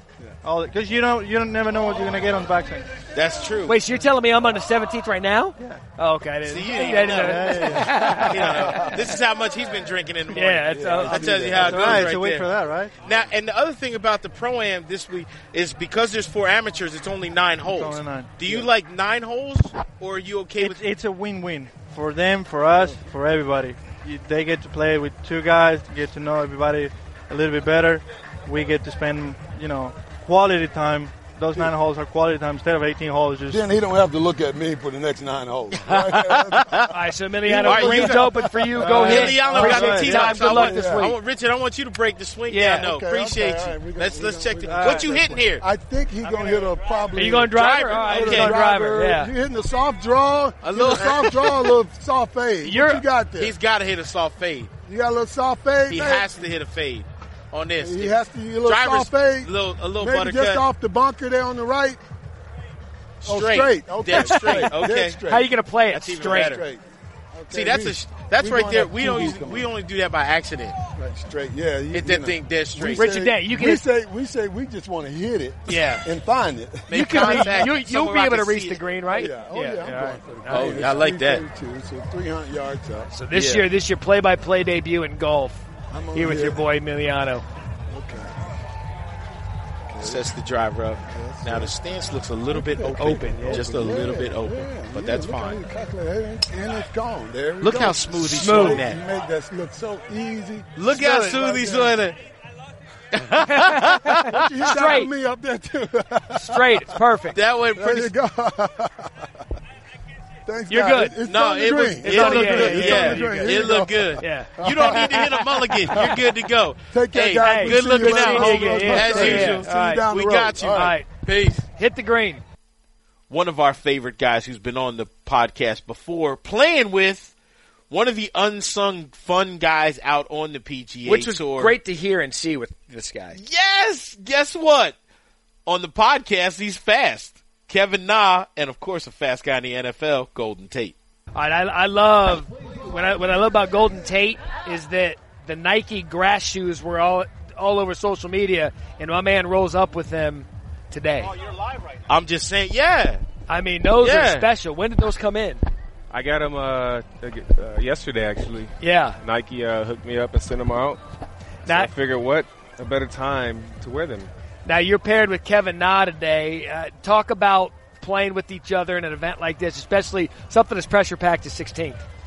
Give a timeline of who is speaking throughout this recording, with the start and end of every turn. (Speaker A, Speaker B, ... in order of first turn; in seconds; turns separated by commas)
Speaker A: 0.4-2.9, Speaker B: 3.1-3.8, Speaker C: 3.7-8.9, Speaker B: 6.4-12.5, Speaker A: 7.1-8.2, Speaker C: 10.3-11.6, Speaker D: 10.7-12.1, Speaker A: 11.2-12.9, Speaker B: 13.0-20.8, Speaker A: 17.7-18.5, Speaker A: 20.6-33.6, Speaker D: 33.5-36.9, Speaker C: 36.9-41.2, Speaker D: 37.4-41.1, Speaker B: 37.6-45.6, Speaker A: 38.8-40.2, Speaker C: 42.5-42.9, Speaker D: 42.7-53.5, Speaker A: 44.6-45.1, Speaker A: 46.2-46.7, Speaker C: 47.1-49.3, Speaker B: 47.5-48.6, Speaker B: 50.6-51.5, Speaker C: 52.6-53.0, Speaker B: 53.4-54.7, Speaker D: 54.9-56.4, Speaker B: 55.9-60.6, Speaker D: 57.8-62.0, Speaker B: 63.2-65.2, Speaker D: 63.2-66.8, Speaker C: 64.2-66.6, Speaker B: 65.9-66.7, Speaker D: 67.3-69.7, Speaker B: 67.5-70.8, Speaker D: 70.9-77.7, Speaker B: 71.9-73.1, Speaker C: 72.9-73.8, Speaker B: 75.7-76.0, Speaker C: 75.7-76.0, Speaker B: 76.9-78.8, Speaker C: 76.9-80.9, Speaker D: 79.1-83.1, Speaker B: 80.5-81.4, Speaker C: 83.1-87.4, Speaker B: 83.3-83.7, Speaker D: 85.9-86.6, Speaker D: 87.9-88.4, Speaker D: 89.9-90.3, Speaker B: 90.0-95.6, Speaker D: 91.1-91.7, Speaker D: 92.5-101.9, Speaker C: 92.8-93.7, Speaker B: 97.6-99.0, Speaker C: 98.3-98.8, Speaker B: 100.8-102.2, Speaker B: 103.1-104.4, Speaker C: 103.5-105.1, Speaker D: 104.2-106.7, Speaker C: 106.3-107.4, Speaker B: 107.3-108.1, Speaker D: 107.7-109.2, Speaker D: 110.5-116.3, Speaker C: 110.7-111.2, Speaker B: 111.2-121.7, Speaker C: 112.0-115.9, Speaker D: 116.9-120.9, Speaker C: 117.4-121.1, Speaker C: 121.7-122.4, Speaker B: 123.3-127.3, Speaker B: 127.9-131.8, Speaker C: 131.1-133.4, Speaker B: 133.3-135.0, Speaker B: 135.7-140.9, Speaker C: 141.3-151.3, Speaker B: 152.1-153.2, Speaker C: 153.5-155.6, Speaker B: 154.0-154.5, Speaker E: 156.1-161.0, Speaker C: 158.8-159.2, Speaker E: 161.7-164.3, Speaker C: 164.7-172.0